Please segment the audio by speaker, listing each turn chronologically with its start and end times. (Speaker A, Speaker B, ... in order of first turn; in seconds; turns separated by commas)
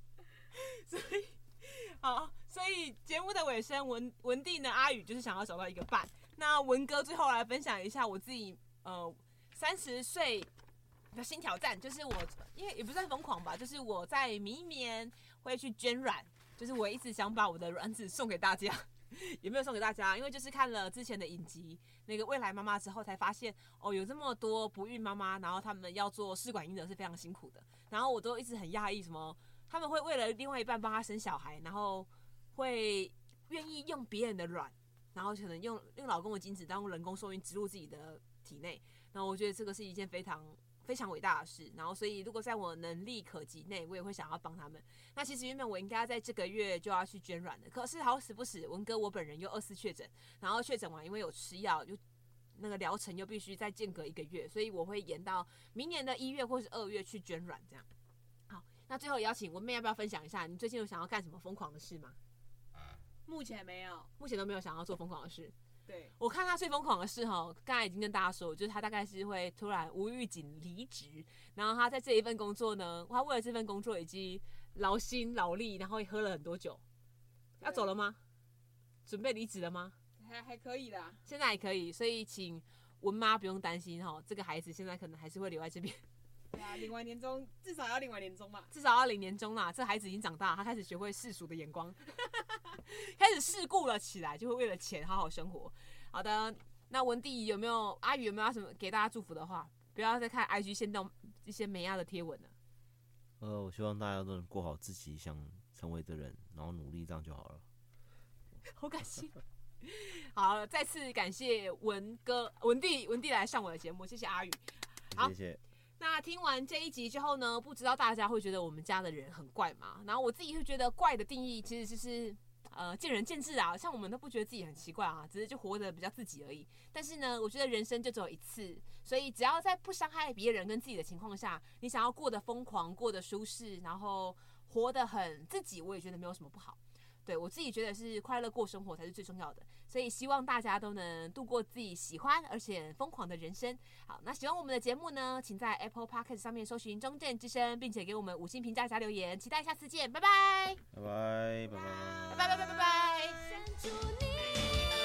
Speaker A: 0.5-10.5, Speaker A: 11.1-52.0, Speaker A: 52.6-57.9, Speaker A: 58.5-62.2, Speaker B: 63.3-64.1, Speaker A: 64.2-65.5, Speaker B: 65.9-66.1, Speaker A: 66.2-76.8, Speaker B: 77.6-77.9, Speaker A: 77.6-78.2, Speaker A: 79.1-80.0, Speaker B: 80.2-81.2, Speaker A: 81.2-86.0, Speaker B: 86.5-88.7, Speaker A: 88.7-102.5, Speaker C: 103.4-107.6, Speaker A: 108.7-115.3, Speaker C: 115.1-115.6, Speaker A: 116.0-150.8, Speaker C: 150.9-152.7, Speaker B: 152.1-154.8, Speaker A: 152.3-153.6